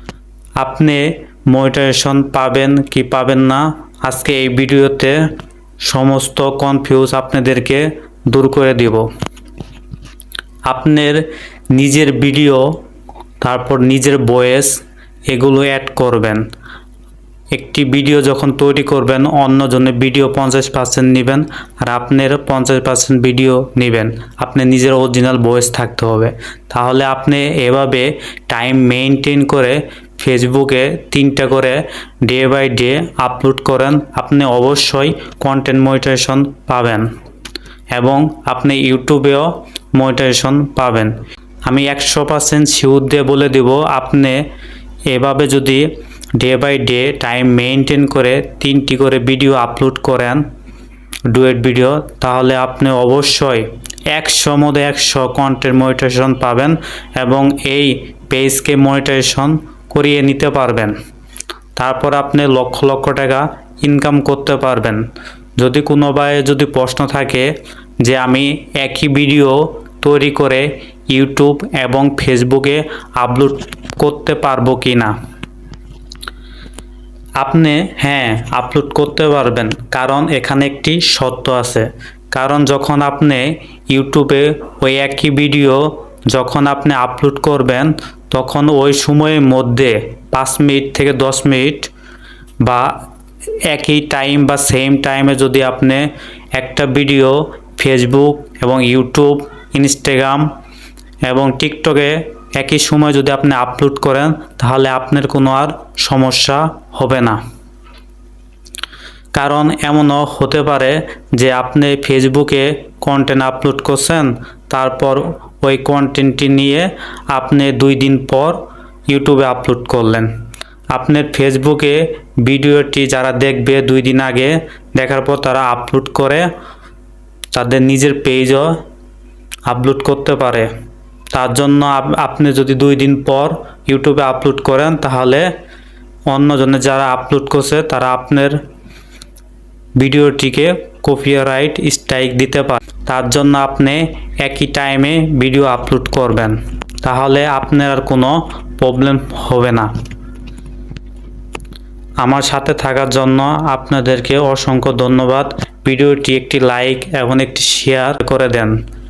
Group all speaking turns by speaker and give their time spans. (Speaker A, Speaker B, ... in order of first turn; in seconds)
Speaker A: 0.6-5.3, 5.8-9.1, 10.7-12.8, 13.4-16.4, 17.5-37.1, 37.9-41.1, 41.7-44.4, 45.1-45.9, 46.4-50.4, 51.3-61.0, 61.8-65.1, 65.6-75.1, 77.4-91.9, 92.6-93.0, 93.7-100.5, 101.2-107.4, 109.3-120.3, 120.9-126.5, 127.5-128.8, 129.7-130.7, 131.3-135.5, 136.3-138.6, 140.0-149.9, 152.2-158.8